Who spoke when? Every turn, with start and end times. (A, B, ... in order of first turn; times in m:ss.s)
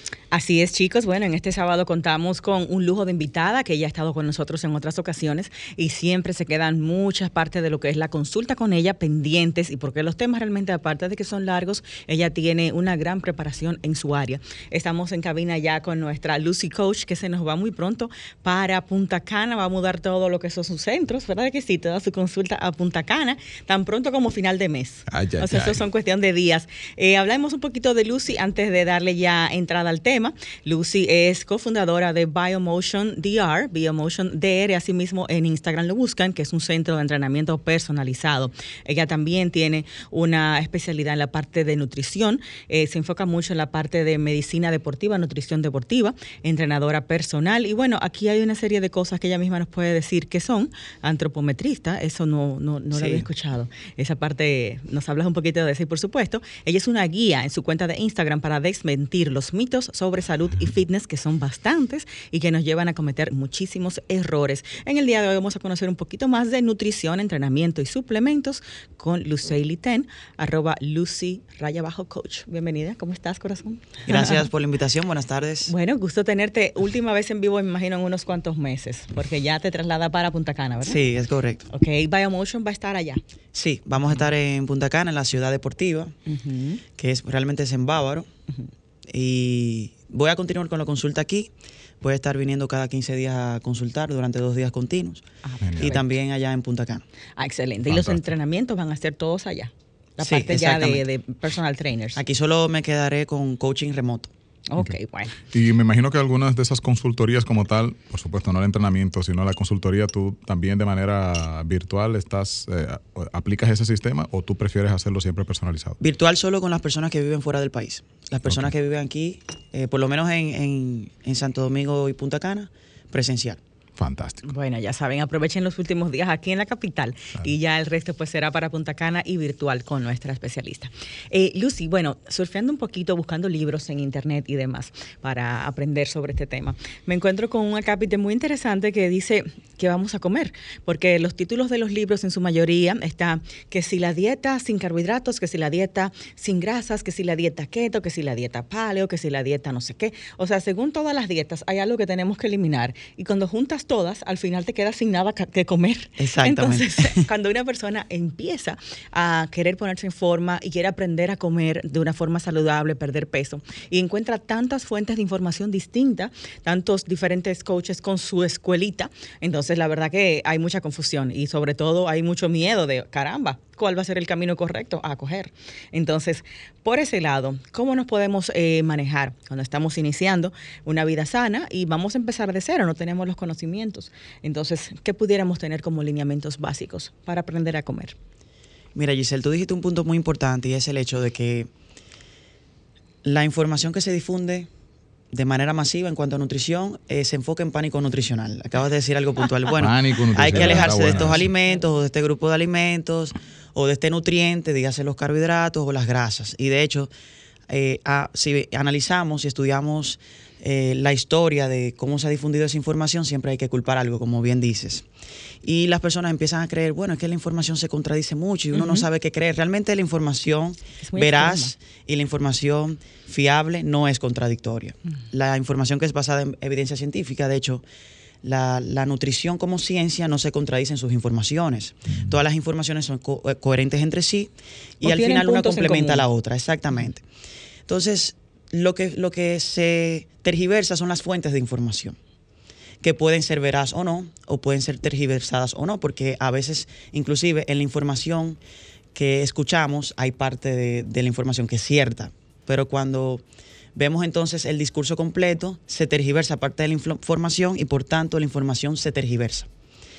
0:00.3-1:14.4 A
0:25.1-0:25.8 B
0:52.9-0:53.2 C
1:14.1-1:15.7 C
1:15.7-1:21.0 A
1:20.8-1:21.7 C
1:21.7-1:23.2 A
1:23.5-1:26.1 C
1:26.3-1:26.8 A
1:27.0-1:28.3 C
1:29.1-1:31.5 C
1:32.0-1:35.2 C
1:35.4-1:36.1 A
1:35.6-1:36.0 B
1:35.8-1:37.0 C
1:37.4-1:42.2 A
1:37.9-1:38.2 B
1:40.2-1:41.0 C
1:42.2-1:44.3 C
1:44.7-1:45.4 A
1:44.8-1:56.0 B
1:56.0-2:03.6 C
1:58.5-1:58.7 B
2:04.0-2:04.5 B
2:04.5-3:08.2 A
2:36.2-2:37.3 C
3:09.0-3:11.7 C
3:13.2-3:14.7 C
3:15.3-3:27.1 C
3:19.8-3:21.5 B
3:27.7-3:35.0 C
3:35.6-3:47.8 C
3:38.8-3:39.1 A
3:41.0-3:41.7 A
3:48.4-3:57.2 C
3:55.0-3:56.2 A
3:57.9-4:02.2 C
4:03.0-4:08.6 C
4:09.1-4:13.4 C
4:14.0-4:19.7 C